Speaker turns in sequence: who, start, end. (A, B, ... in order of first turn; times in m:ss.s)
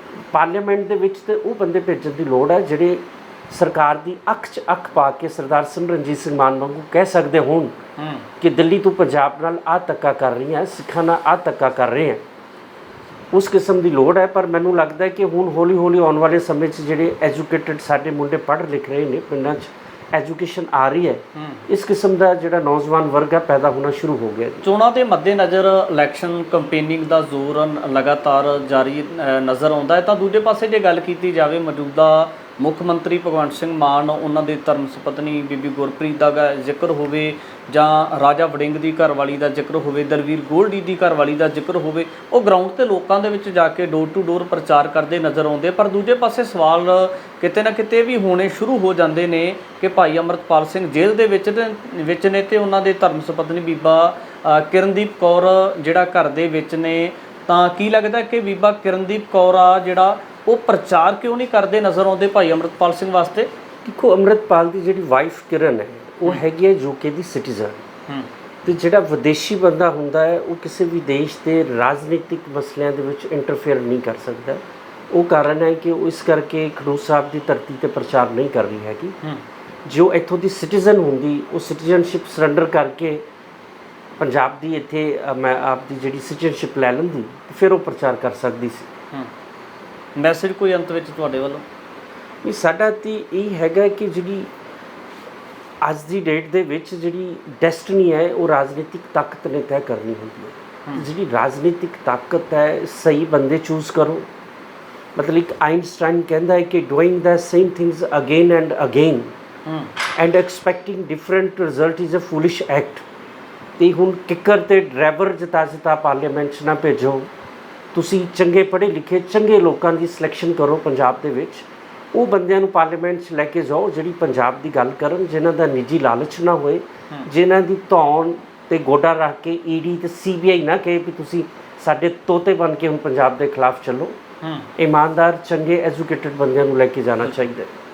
0:00.3-0:07.8 A
0:08.0-0:08.2 B
0:08.4-0:12.2 A
0:13.3-0:24.6 A
0:21.3-0:21.6 B
0:24.6-1:03.5 B
1:03.8-1:07.8 A
1:08.6-1:19.2 A
1:19.8-1:23.2 A
1:24.2-1:28.9 A
1:30.2-1:31.6 B
1:32.4-1:34.5 A
1:35.8-1:44.3 A
1:45.2-1:49.3 A
1:49.6-1:49.9 B
1:50.1-1:53.0 A
1:53.8-1:57.3 A
1:57.9-2:14.2 A
2:14.4-2:14.7 B
2:14.8-2:17.7 A